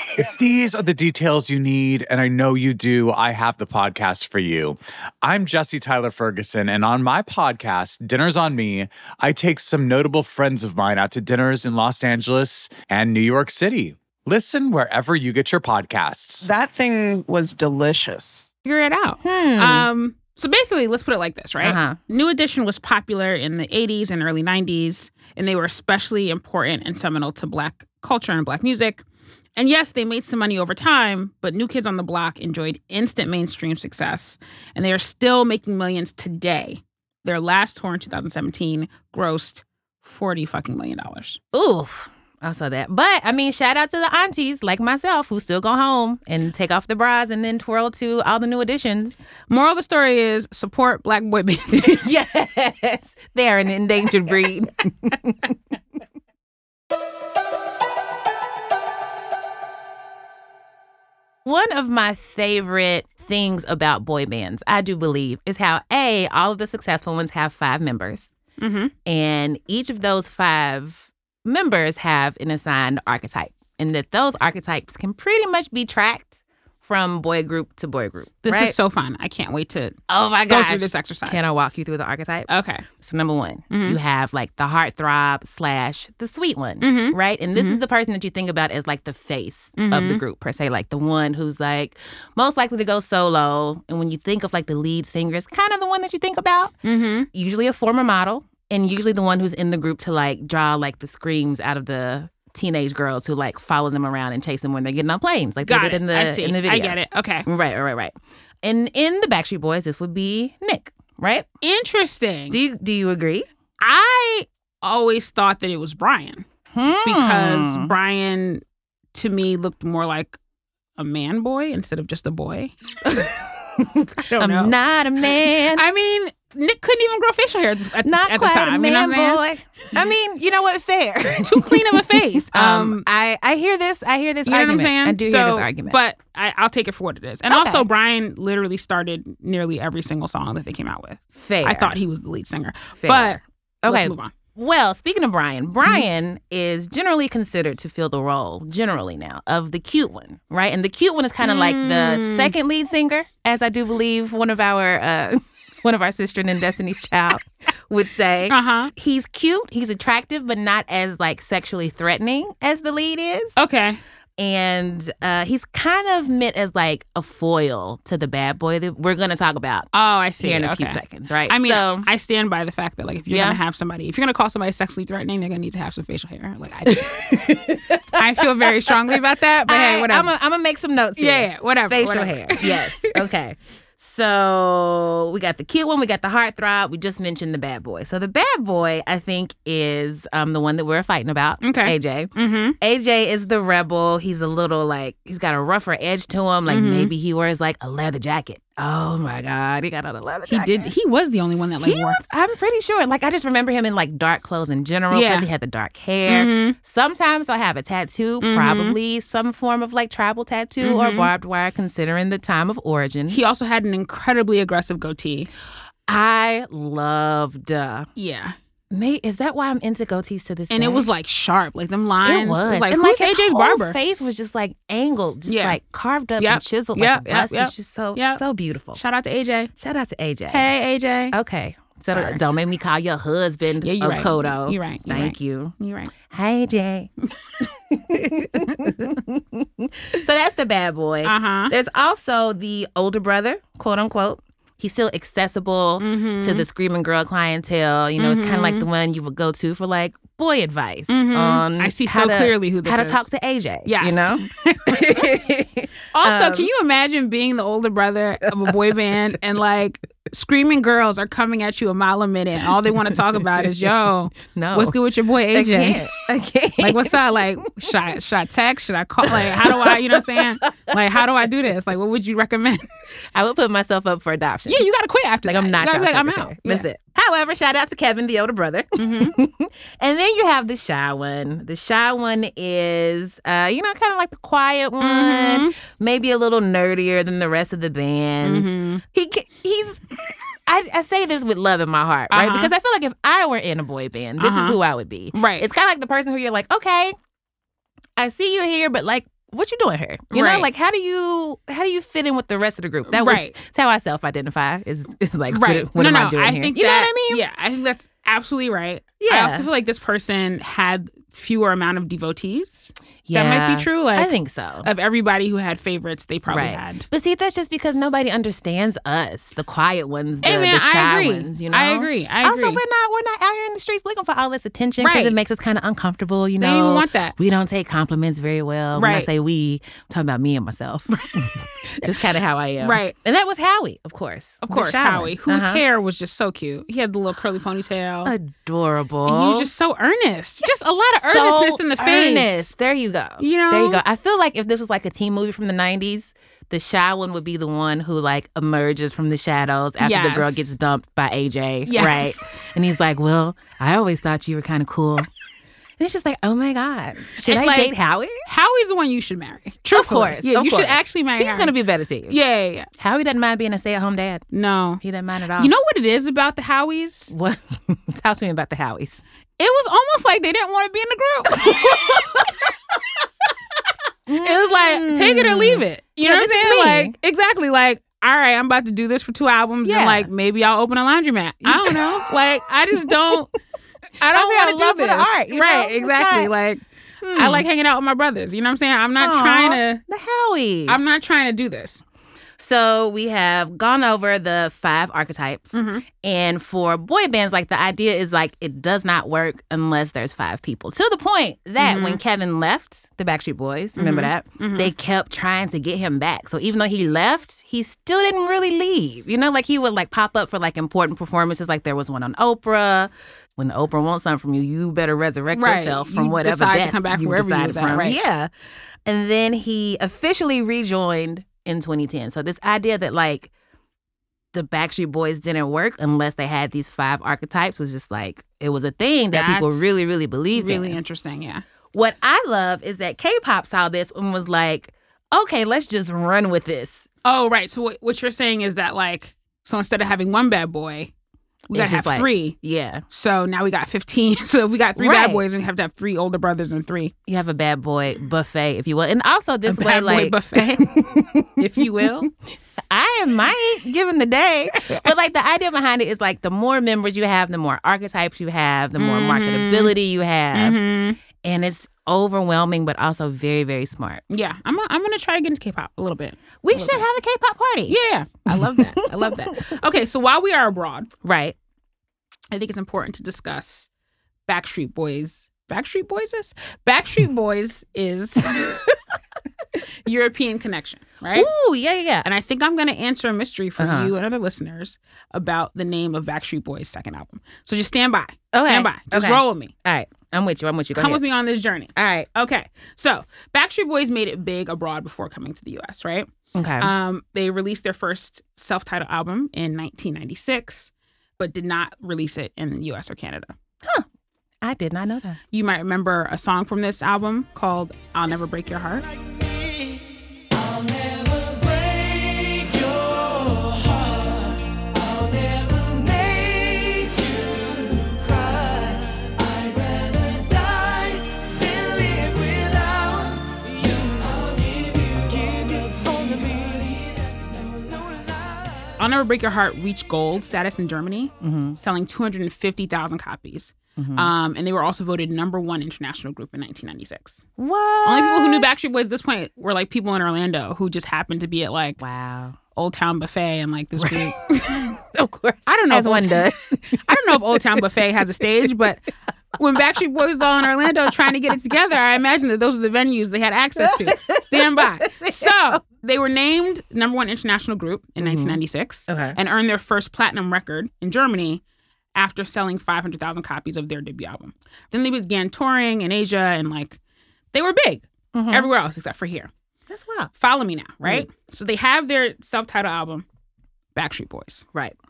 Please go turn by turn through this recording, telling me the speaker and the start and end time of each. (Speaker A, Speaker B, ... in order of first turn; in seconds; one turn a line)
Speaker A: 0.2-16.5
Speaker B: 16.4-18.5
Speaker C: 18.6-29.0
Speaker D: 19.2-19.9
Speaker D: 21.6-22.0
Speaker C: 29.6-41.4
Speaker D: 41.5-49.2
Speaker C: 49.5-52.0
Speaker D: 51.7-55.5
Speaker D: 61.4-68.3
Speaker C: 68.6-68.9
Speaker D: 69.0-78.8
Speaker C: 78.4-81.5
Speaker D: 80.1-96.7
Speaker C: 82.5-82.8
Speaker C: 83.7-84.0
Speaker C: 86.8-87.8
Speaker C: 89.8-90.2
Speaker C: 96.8-97.3
Speaker D: 97.3-111.5
Speaker C: 105.6-107.5
Speaker C: 111.6-112.6
Speaker D: 112.5-113.5
Speaker C: 113.8-116.5
Speaker D: 116.7-117.9
Speaker C: 117.0-118.6
Speaker C: 119.1-120.4
Speaker C: 121.0-123.3
Speaker D: 123.0-125.8
Speaker C: 124.2-124.7
Speaker C: 125.7-129.4
Speaker D: 128.0-136.0
Speaker C: 131.3-133.0
Speaker C: 134.4-144.3
Speaker D: 137.5-137.8
Speaker D: 141.3-141.9
Speaker D: 143.0-163.6
Speaker C: 151.4-152.5
Speaker C: 158.5-158.9
Speaker C: 163.6-164.0
Speaker D: 164.4-172.1
Speaker C: 169.9-180.3
Speaker D: 173.3-173.6
Speaker D: 176.9-179.0
Speaker D: 179.7-200.9
Speaker C: 181.2-183.2
Speaker C: 191.6-192.8
Speaker C: 196.7-197.1
Speaker C: 200.5-202.2
Speaker D: 201.8-213.4
Speaker C: 205.1-205.5
Speaker C: 206.3-206.8
Speaker C: 208.4-209.0
Speaker C: 210.8-211.3
Speaker C: 213.3-215.5
Speaker D: 216.1-218.1
Speaker C: 218.2-218.6
Speaker D: 218.9-221.1
Speaker C: 220.7-224.0
Speaker D: 222.2-229.0
Speaker C: 225.5-225.8
Speaker C: 226.4-228.4
Speaker C: 228.9-229.7
Speaker D: 229.8-230.7
Speaker C: 230.5-231.3
Speaker D: 231.3-235.7
Speaker C: 232.1-232.4
Speaker C: 233.8-236.1
Speaker D: 236.3-237.1
Speaker D: 237.9-256.7
Speaker C: 241.2-241.7
Speaker C: 246.0-246.7
Speaker C: 248.2-248.9
Speaker C: 251.1-253.3
Speaker C: 253.8-255.2
Speaker C: 256.1-266.1
Speaker D: 264.5-264.9
Speaker D: 265.5-267.9
Speaker C: 266.8-272.9
Speaker D: 269.2-271.2
Speaker D: 273.3-274.9
Speaker C: 274.7-276.9
Speaker D: 275.4-290.0
Speaker C: 279.0-279.4
Speaker C: 285.0-285.7
Speaker C: 288.4-289.0
Speaker D: 290.7-297.1
Speaker C: 292.3-292.7
Speaker C: 294.4-294.8
Speaker C: 295.3-295.7
Speaker D: 298.2-307.4
Speaker C: 300.3-300.7
Speaker C: 303.1-303.6
Speaker C: 305.5-317.1
Speaker D: 309.2-309.7
Speaker D: 313.3-314.9
Speaker D: 316.5-335.8
Speaker C: 320.4-322.8
Speaker C: 325.0-325.4
Speaker C: 326.6-327.3
Speaker C: 328.9-329.3
Speaker C: 332.8-333.1
Speaker C: 334.6-338.3
Speaker D: 338.2-339.7
Speaker C: 339.2-342.7
Speaker D: 341.1-355.3
Speaker C: 343.4-344.0
Speaker C: 350.0-350.7
Speaker C: 351.9-352.4
Speaker D: 356.0-358.4
Speaker C: 357.4-361.7
Speaker D: 359.9-362.4
Speaker C: 362.3-362.9
Speaker D: 363.0-364.4
Speaker C: 364.5-365.0
Speaker D: 365.0-365.7
Speaker C: 365.6-367.3
Speaker D: 367.3-369.2
Speaker C: 369.6-372.4
Speaker D: 372.0-372.2
Speaker D: 374.3-377.1
Speaker C: 374.4-383.5
Speaker D: 379.8-380.3
Speaker D: 381.6-382.1
Speaker D: 383.0-383.4
Speaker C: 384.2-386.8
Speaker D: 384.3-386.5
Speaker D: 387.2-387.7
Speaker C: 387.3-390.0
Speaker D: 389.2-391.1
Speaker C: 390.9-392.0
Speaker D: 392.6-418.5
Speaker C: 395.7-396.1
Speaker C: 401.8-402.2
Speaker C: 404.0-404.9
Speaker C: 415.5-418.2
Speaker D: 419.1-423.5
Speaker D: 424.5-431.0
Speaker C: 429.3-430.0
Speaker C: 430.5-431.6
Speaker D: 431.9-437.1
Speaker C: 437.2-441.1
Speaker C: 441.7-442.6
Speaker D: 441.7-443.0
Speaker C: 443.1-447.1
Speaker D: 444.9-445.4
Speaker D: 447.3-451.8
Speaker C: 449.7-452.3
Speaker D: 452.9-460.8
Speaker C: 454.8-455.0
Speaker C: 459.0-459.9
Speaker C: 460.5-461.2
Speaker D: 461.4-464.2
Speaker C: 464.3-467.0
Speaker D: 466.6-468.0
Speaker C: 467.9-471.1
Speaker D: 468.5-469.4
Speaker D: 471.2-471.6
Speaker C: 472.5-473.9
Speaker C: 474.5-478.9
Speaker C: 480.0-481.5
Speaker D: 481.3-482.3
Speaker C: 482.2-489.7
Speaker D: 483.8-484.1
Speaker D: 488.5-491.2
Speaker C: 490.9-496.3
Speaker D: 491.9-492.3
Speaker D: 496.5-496.9
Speaker C: 496.8-503.5
Speaker D: 504.6-505.4
Speaker C: 505.5-509.1
Speaker E: 510.5-528.9
Speaker C: 529.0-537.4
Speaker D: 531.4-531.8
Speaker D: 534.0-534.3
Speaker D: 537.6-538.7
Speaker C: 538.0-542.0
Speaker D: 542.0-542.6
Speaker C: 542.8-545.0
Speaker D: 544.0-547.8
Speaker C: 545.6-546.5
Speaker C: 547.0-549.0
Speaker D: 548.4-548.6
Speaker C: 549.6-561.6
Speaker D: 551.0-551.3
Speaker D: 553.8-555.8
Speaker D: 558.2-559.4
Speaker C: 562.1-567.0
Speaker C: 567.5-569.5
Speaker D: 568.3-568.7
Speaker D: 569.9-570.3
Speaker C: 570.4-573.2
Speaker D: 571.0-571.3
Speaker C: 573.9-574.6